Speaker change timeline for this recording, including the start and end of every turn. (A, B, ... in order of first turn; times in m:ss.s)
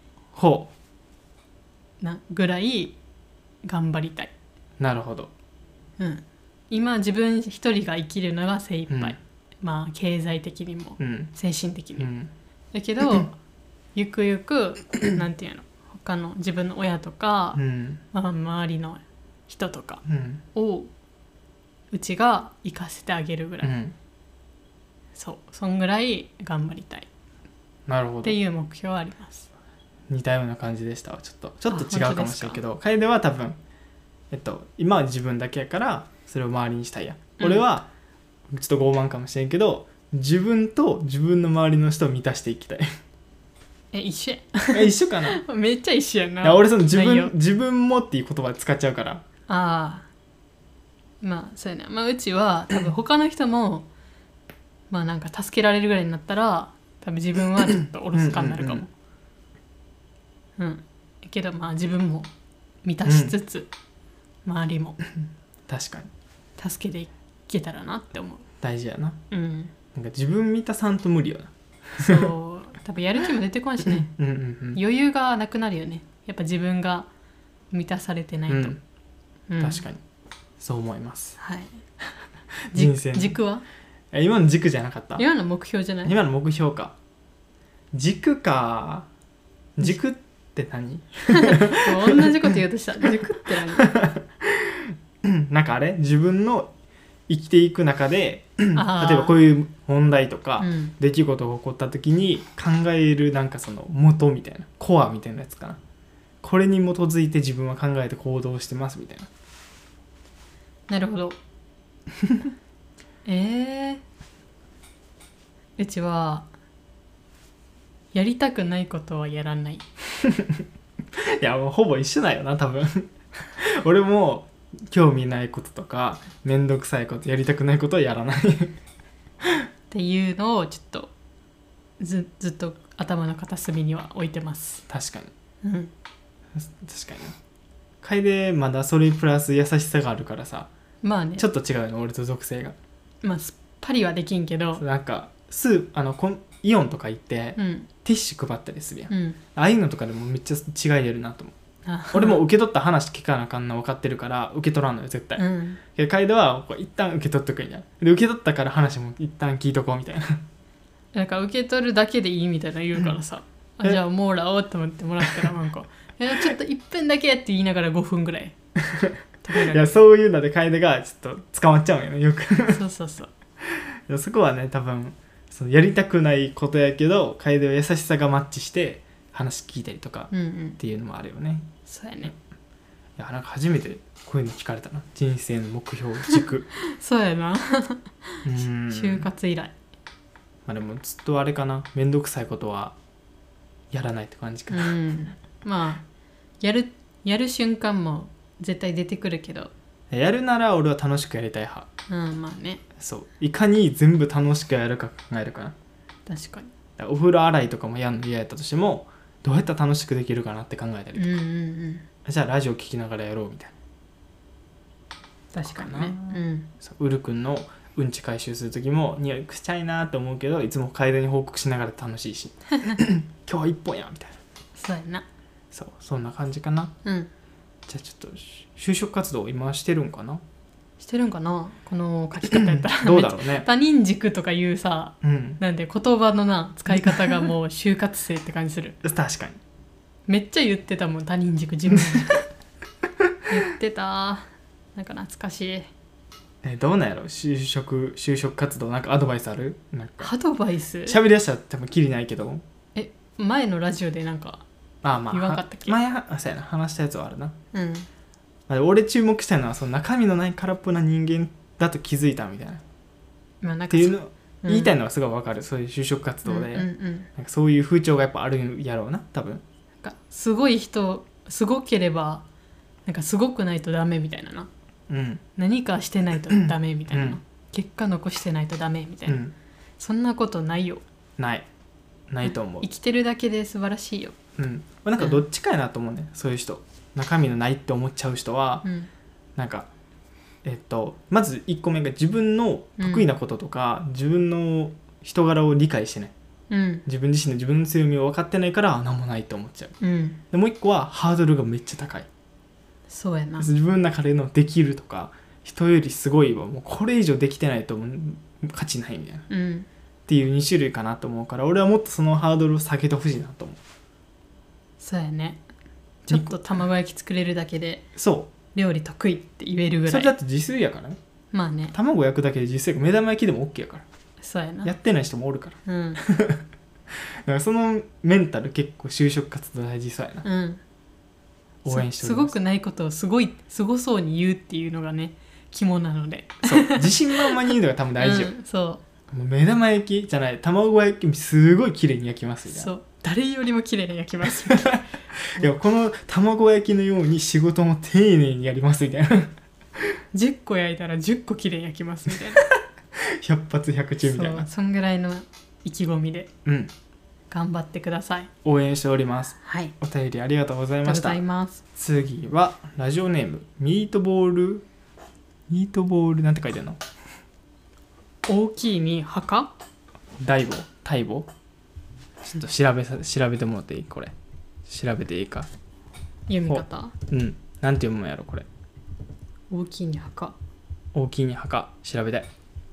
0:00.4-0:00.7 A
0:02.0-0:03.0 B
0:03.6-0:04.3 B
0:04.8-0:05.3 A
0:06.0-0:12.1 B
0:08.9-0:09.2 A
0:11.0-0:11.3 A
0:12.0-0:12.3 A
0:12.7-0:13.4 B
0:14.0-0:17.6 B
0:17.6-0:18.0 A
0:18.1-0:20.0 B
0:20.1-0:20.4 A
0:20.6-0:20.9 B
0:21.9-0:23.7 B
0:23.6-0:23.9 A
0:25.2-0:27.1 B
0:27.9-0:28.4 A
0:28.2-0:29.5 B
0:30.1-0:33.6 A
0:31.7-0:32.6 B
0:34.3-0:37.9 A
0:37.4-0:37.7 B
0:38.5-0:42.9 A
0:43.9-0:47.3 B
0:44.7-0:45.4 A
0:46.4-0:49.2 A
0:49.5-0:50.1 B
0:51.2-0:53.9 B
0:54.9-0:58.9 B
0:58.1-0:58.8 A
1:00.6-1:02.3 B
1:02.8-1:03.7 B
1:03.0-1:03.4 A
1:04.4-1:05.0 B
1:05.7-1:06.1 A
1:06.6-1:08.5 B
1:08.6-1:09.2 A
1:09.3-1:09.7 B
1:10.0-1:12.3 A
1:12.0-1:14.1 B
1:14.1-1:14.8 A
1:14.8-1:17.1 B
1:17.7-1:18.8 B
1:18.5-1:18.8 A
1:19.5-1:19.8 B
1:19.6-1:20.0 A
1:20.6-1:21.4 A
1:21.4-1:21.8 B
1:22.7-1:23.4 A
1:22.7-1:23.6 B
1:24.1-1:25.3 A
1:25.2-1:26.1 B
1:26.0-1:27.0 A
1:27.9-1:29.1 A
1:29.8-1:32.5 A
1:31.3-1:33.9 B
1:33.8-1:36.7 A
1:37.3-1:45.8 A
1:38.8-1:39.4 B
1:40.6-1:40.9 B
1:46.4-1:49.3 A
1:50.9-1:51.4 B
1:53.2-1:54.0 B
1:55.8-1:56.5 B
1:58.1-1:59.8 B
2:00.2-2:00.6 A
2:01.4-2:08.8 A
2:09.9-2:11.1 B
2:12.0-2:14.8 B
2:14.9-2:15.3 A
2:15.6-2:15.9 B
2:16.6-2:17.4 A
2:18.0-2:20.7 A
2:21.0-2:21.5 B
2:21.4-2:22.8 A
2:23.2-2:24.8 B
2:24.8-2:31.5 A
2:27.6-2:27.9 B
2:29.1-2:29.4 B
2:31.8-2:32.4 B
2:32.1-2:40.4 A
2:35.4-2:35.8 B
2:41.1-2:48.6 B
2:48.8-2:52.8 A
2:49.4-2:49.9 B
2:52.7-2:53.3 B
2:53.7-3:01.7 A
3:00.3-3:00.8 B
3:01.9-3:02.3 B
3:03.2-3:06.7 A
3:06.3-3:09.8 B
3:08.4-3:09.3 A
3:10.7-3:13.0 A
3:13.9-3:15.0 A
3:14.7-3:16.0 B
3:16.6-3:19.7 B
3:20.1-3:21.9 A
3:22.1-3:22.8 B
3:23.0-3:25.8 A
3:26.3-3:26.7 B
3:27.0-3:31.4 A
3:31.2-3:32.1 B
3:32.2-3:33.7 A
3:35.5-3:36.7 B
3:35.6-3:44.4 A
3:44.8-3:45.3 B
3:45.7-3:46.9 A
3:47.0-3:47.3 B
3:47.9-3:50.4 A
3:51.0-3:59.0 B
3:52.4-3:53.7 A
3:55.2-3:55.6 A
3:56.9-3:57.4 A
3:59.0-3:59.6 A
4:00.3-4:02.5 B
4:03.5-4:05.9 B
4:06.6-4:10.3 A
4:10.2-4:11.2 B
4:11.0-4:12.6 A
4:13.0-4:14.6 B
4:15.0-4:17.6 A
4:15.3-4:16.0 B
4:17.7-4:18.1 B
4:18.7-4:22.8 A
4:23.6-4:25.0 B
4:23.9-4:29.6 A
4:26.5-4:27.3 B
4:30.0-4:32.4 B
4:33.1-4:34.7 B
4:35.1-4:35.4 A
4:35.6-4:39.4 B
4:36.5-4:37.4 A
4:39.3-4:39.5 A
4:40.0-4:41.0 B
4:41.4-4:41.7 A
4:42.3-4:42.9 A
4:42.4-4:44.4 B
4:44.6-4:48.9 A
4:48.8-4:49.1 B
4:49.6-4:49.9 A
4:50.6-4:56.3 A
4:53.0-4:53.3 B
4:56.7-4:57.0 B
4:57.1-5:00.0 A
5:00.0-5:00.4 B
5:00.5-5:02.3 A
5:03.1-5:03.7 B
5:03.6-5:09.5 A
5:09.5-5:09.9 B
5:10.3-5:13.8 A
5:15.0-5:15.6 B
5:16.2-5:18.1 B
5:16.3-5:16.6 A
5:18.2-5:18.5 A
5:18.7-5:20.3 B
5:20.1-5:21.2 A
5:21.5-5:22.0 B
5:21.9-5:24.0 A
5:24.4-5:24.9 B
5:24.8-5:26.6 A
5:25.9-5:26.2 B
5:27.4-5:30.5 A
5:30.4-5:30.8 B
5:31.8-5:32.6 A
5:31.9-5:39.0 B
5:36.6-5:38.5 A
5:39.3-5:42.9 A
5:42.7-5:45.0 B
5:44.7-5:49.5 A
5:50.3-5:52.6 B
5:52.6-5:54.7 A
5:54.2-5:56.5 B
5:56.6-5:56.9 A
5:57.5-5:58.5 B
5:58.6-6:01.4 A
5:59.6-6:00.0 B
6:01.0-6:01.8 B
6:02.0-6:04.9 A
6:05.7-6:07.0 A
6:08.5-6:09.7 B
6:10.4-6:11.5 A
6:12.4-6:14.3 A
6:14.9-6:15.7 A
6:16.5-6:17.2 B
6:16.7-6:18.7 A
6:19.7-6:20.6 B
6:21.1-6:22.5 A